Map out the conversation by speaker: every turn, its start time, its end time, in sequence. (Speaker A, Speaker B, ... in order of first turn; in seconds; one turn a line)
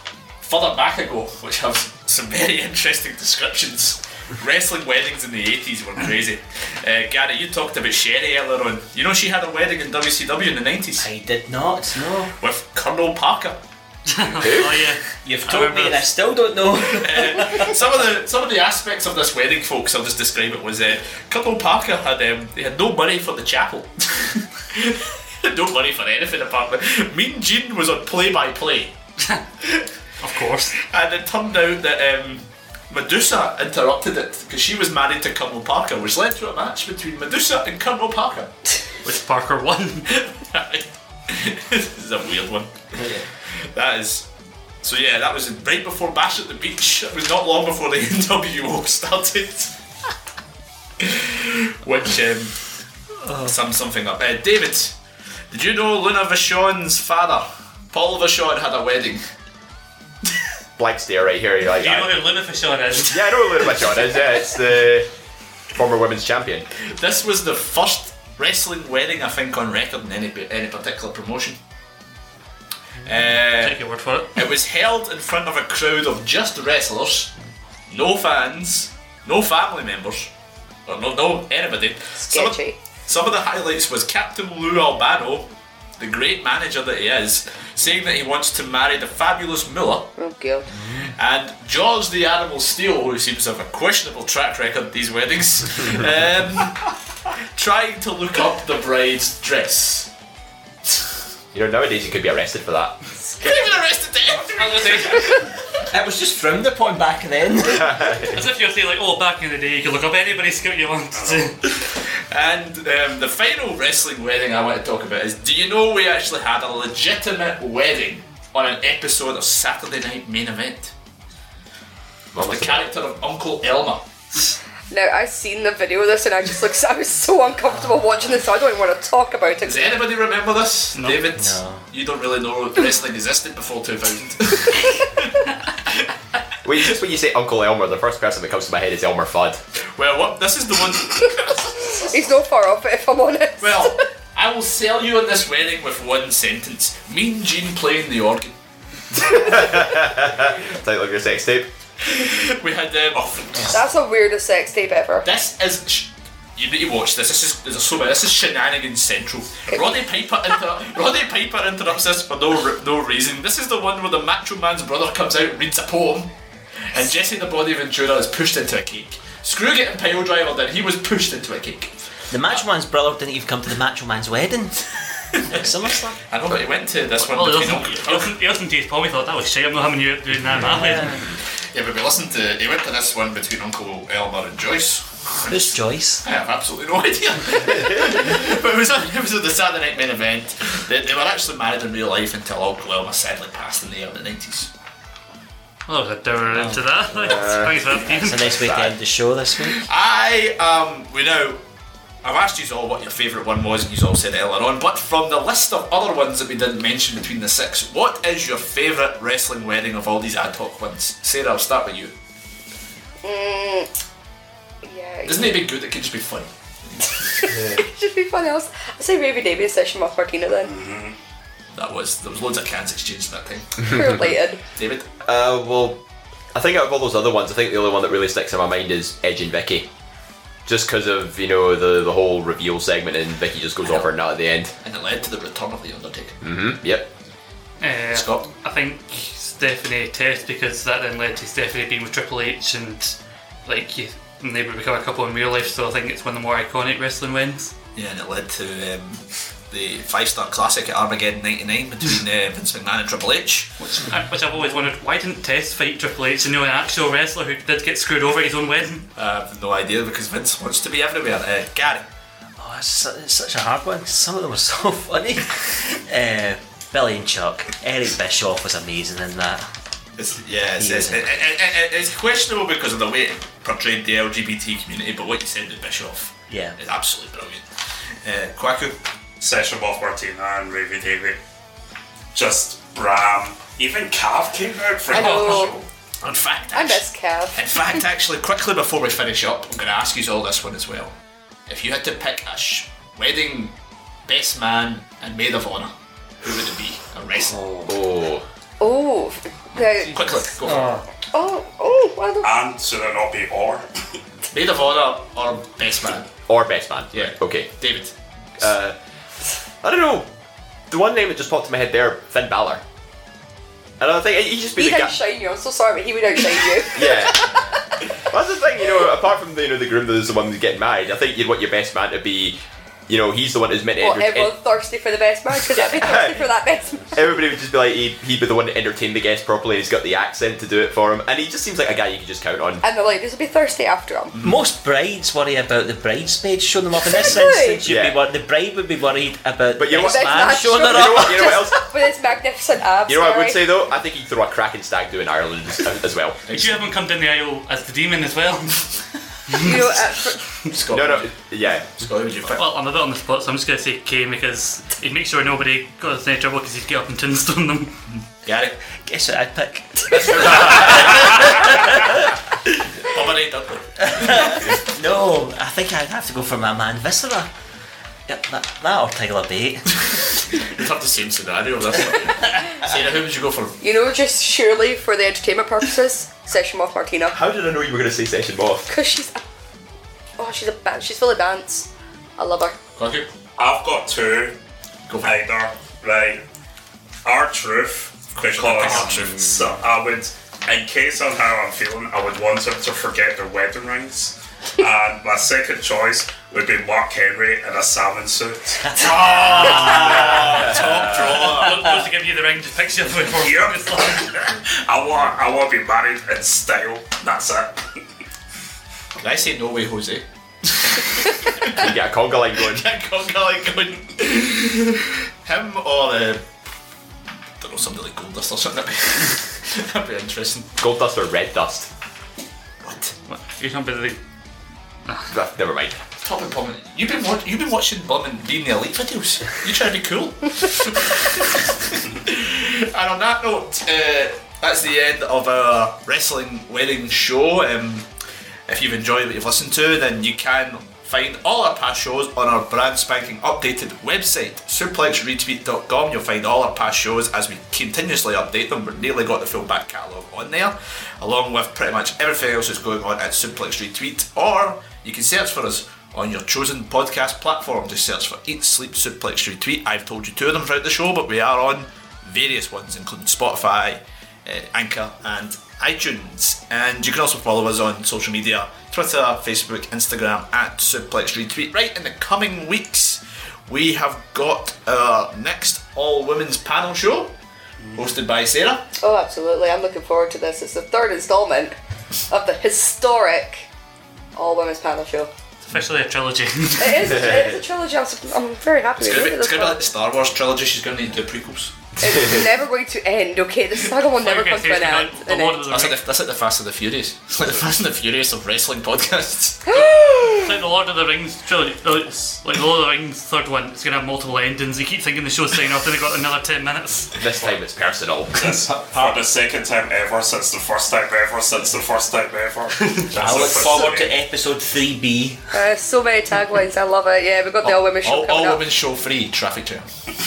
Speaker A: 0.4-11.1
Speaker B: 11.0-12.3
Speaker A: 12.4-13.6
Speaker C: 14.1-16.0
Speaker D: 14.4-14.7
Speaker B: 15.2-17.7
Speaker A: 16.9-28.9
Speaker C: 30.2-30.8
Speaker A: 30.8-38.5
Speaker C: 39.0-40.0
Speaker A: 40.1-42.7
Speaker B: 42.9-43.2
Speaker A: 43.7-44.3
Speaker A: 44.8-49.7
Speaker A: 51.0-52.5
Speaker B: 53.2-53.5
Speaker A: 53.4-54.9
Speaker A: 55.5-59.2
Speaker D: 60.8-62.2
Speaker C: 61.6-64.3
Speaker D: 63.0-65.1
Speaker D: 65.7-66.7
Speaker A: 67.0-71.6
Speaker A: 73.0-73.8
Speaker C: 73.5-74.4
Speaker A: 74.3-77.3
Speaker A: 77.9-80.3
Speaker A: 80.9-90.1
Speaker E: 82.2-82.8
Speaker E: 90.2-90.7
Speaker A: 91.2-96.8
Speaker A: 97.5-100.1
Speaker D: 101.5-103.0
Speaker A: 103.4-105.5
Speaker B: 105.9-107.9
Speaker D: 107.7-108.4
Speaker C: 108.2-111.6
Speaker F: 111.1-111.5
Speaker A: 112.3-120.9
Speaker D: 122.3-122.8
Speaker A: 122.4-124.0
Speaker E: 124.9-130.0
Speaker B: 127.7-128.2
Speaker A: 129.6-135.3
Speaker C: 130.9-131.3
Speaker B: 131.3-131.8
Speaker D: 136.6-139.6
Speaker A: 139.9-142.1
Speaker E: 142.1-144.0
Speaker A: 143.6-148.5
Speaker D: 149.1-151.7
Speaker A: 152.0-153.6
Speaker E: 153.7-155.3
Speaker A: 155.2-166.3
Speaker A: 166.8-171.9
Speaker B: 172.3-174.8
Speaker B: 175.4-176.2
Speaker A: 175.5-175.7
Speaker A: 176.3-178.4
Speaker C: 177.2-181.1
Speaker B: 180.7-181.2
Speaker A: 181.7-194.7
Speaker B: 185.5-186.2
Speaker C: 195.9-198.5
Speaker B: 196.5-197.5
Speaker D: 197.2-197.8
Speaker B: 198.0-199.8
Speaker A: 199.7-201.6
Speaker A: 202.2-212.1
Speaker E: 213.2-213.9
Speaker E: 214.8-215.6
Speaker A: 215.2-217.4
Speaker E: 217.7-220.7
Speaker F: 220.7-221.1
Speaker A: 221.7-223.8
Speaker E: 223.9-224.6
Speaker A: 224.8-225.1
Speaker D: 225.2-226.0
Speaker D: 226.5-229.9
Speaker D: 230.7-234.7
Speaker A: 234.8-236.3
Speaker D: 236.4-237.1
Speaker C: 237.8-247.7
Speaker A: 238.1-238.5
Speaker A: 247.9-253.7
Speaker C: 253.8-259.1
Speaker A: 259.1-262.1
Speaker B: 262.6-269.7
Speaker A: 270.2-277.6
Speaker B: 270.8-271.4
Speaker B: 276.5-276.8
Speaker A: 278.2-278.9
Speaker F: 279.4-281.4
Speaker F: 282.3-285.8
Speaker E: 285.1-285.7
Speaker A: 285.2-291.1
Speaker E: 286.7-287.6
Speaker A: 291.7-293.7
Speaker A: 294.3-297.6
Speaker D: 297.9-298.4
Speaker E: 298.8-300.5
Speaker A: 300.0-301.0
Speaker E: 301.3-302.5
Speaker F: 302.4-303.8
Speaker A: 304.5-306.3
Speaker D: 306.5-307.7
Speaker A: 307.1-308.6
Speaker D: 308.6-308.9
Speaker D: 309.8-310.3
Speaker D: 310.9-312.8
Speaker D: 314.0-315.1
Speaker E: 314.8-317.6
Speaker D: 316.9-317.5
Speaker D: 318.3-324.5
Speaker E: 324.0-327.3
Speaker D: 325.6-326.5
Speaker D: 327.1-332.8
Speaker E: 332.8-334.3
Speaker B: 334.4-341.6
Speaker E: 337.0-337.8
Speaker D: 337.8-338.2
Speaker D: 339.8-341.9
Speaker E: 340.0-343.7
Speaker D: 343.1-346.4
Speaker A: 346.5-346.9
Speaker C: 346.5-348.9
Speaker C: 349.5-349.9
Speaker E: 349.6-350.4
Speaker A: 350.7-351.3
Speaker D: 350.9-351.9
Speaker A: 352.0-352.6
Speaker C: 352.5-357.9
Speaker A: 358.1-358.8
Speaker B: 359.1-362.1
Speaker A: 360.1-361.8
Speaker A: 363.1-364.7
Speaker B: 364.0-367.5
Speaker B: 368.3-370.0
Speaker A: 370.6-373.8
Speaker E: 373.8-377.4
Speaker D: 377.3-378.9
Speaker E: 378.9-379.4
Speaker E: 380.4-382.8
Speaker A: 382.9-383.3
Speaker F: 383.6-384.5
Speaker A: 385.1-385.4
Speaker F: 385.2-386.4
Speaker F: 387.2-399.1
Speaker A: 388.4-389.4
Speaker A: 399.0-401.9
Speaker B: 399.1-400.1
Speaker D: 400.5-401.1
Speaker C: 401.4-404.3
Speaker F: 403.4-407.7
Speaker A: 409.2-411.8
Speaker D: 411.8-412.9
Speaker A: 412.6-416.4
Speaker A: 417.6-420.7
Speaker D: 420.8-421.9
Speaker A: 422.8-423.1
Speaker C: 423.3-424.2
Speaker C: 425.1-425.3
Speaker D: 425.3-426.0
Speaker A: 426.2-438.1
Speaker A: 438.7-477.3
Speaker A: 478.0-478.8
Speaker E: 479.0-481.7
Speaker E: 482.3-483.6
Speaker E: 484.4-485.3
Speaker C: 485.6-487.2
Speaker E: 486.8-489.9
Speaker D: 487.2-487.5
Speaker A: 489.0-491.7
Speaker E: 492.0-495.7
Speaker D: 492.0-492.5
Speaker C: 494.2-496.0
Speaker A: 495.7-499.7
Speaker E: 499.7-500.5
Speaker C: 500.4-507.1
Speaker D: 507.2-508.6
Speaker F: 508.4-514.1
Speaker B: 513.2-515.6
Speaker A: 513.2-513.9
Speaker E: 515.5-518.6
Speaker A: 517.6-519.9